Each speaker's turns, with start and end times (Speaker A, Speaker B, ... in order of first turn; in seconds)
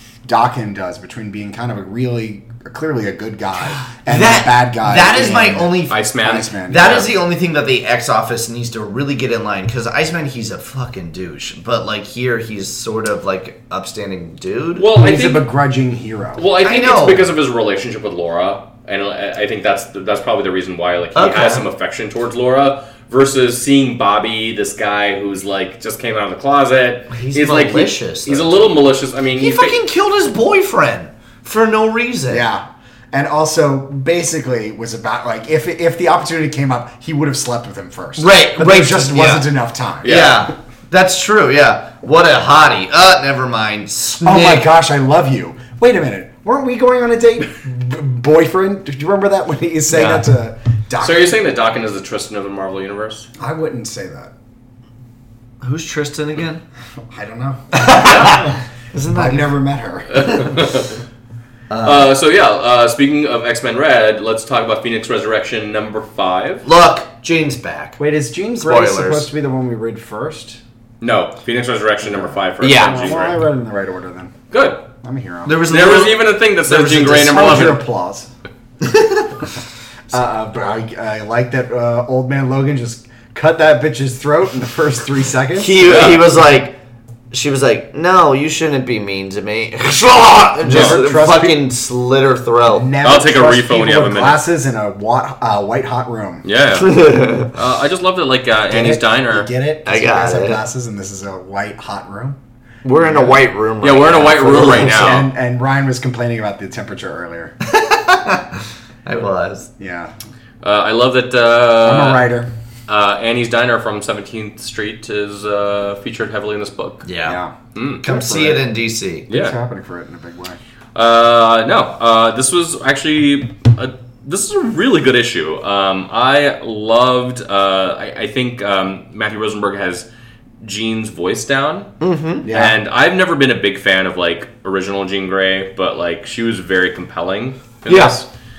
Speaker A: 0.2-7.0, 14.9-16.4, 32.3-40.2, 44.2-51.4, 53.4-54.3, 57.1-58.5, 59.1-60.4, 68.0-70.6, 72.0-74.3, 75.0-75.6, 77.0-78.3, 80.1-85.8, 90.6-91.6, 92.7-96.5, 98.7-102.4, 103.0-103.4, 104.5-107.5, 109.8-110.1, 111.8-112.5, 117.2-118.7, 119.3-120.6, 132.4-132.8
Speaker B: 4.1-14.9, 16.6-17.3, 21.1-21.7, 27.1-28.8, 29.4-32.4, 38.2-39.5, 40.0-44.7, 49.9-50.2, 55.6-56.6, 57.7-59.5, 61.7-62.1, 66.7-68.0, 68.6-69.3, 72.6-73.2, 75.5-77.7, 78.8-79.4, 85.6-86.8, 87.3-92.9, 96.8-97.5, 99.8-100.6, 102.8-105.2, 107.6-109.7, 117.0-117.4, 118.0-119.3, 132.0-132.5, 137.9-138.2
Speaker C: 5.9-7.1, 14.8-15.5, 16.4-29.8, 40.0-40.4, 51.0-53.3, 58.1-58.4, 60.1-61.0, 61.8-66.7, 71.0-73.4, 74.5-74.8, 75.6-77.8, 85.8-86.2, 90.7-91.0, 93.0-94.4, 96.4-99.5, 103.8-105.3, 110.6-112.3, 112.9-117.1, 117.8-118.0, 119.3-119.6, 121.0-130.1, 130.6-131.9, 132.5-138.3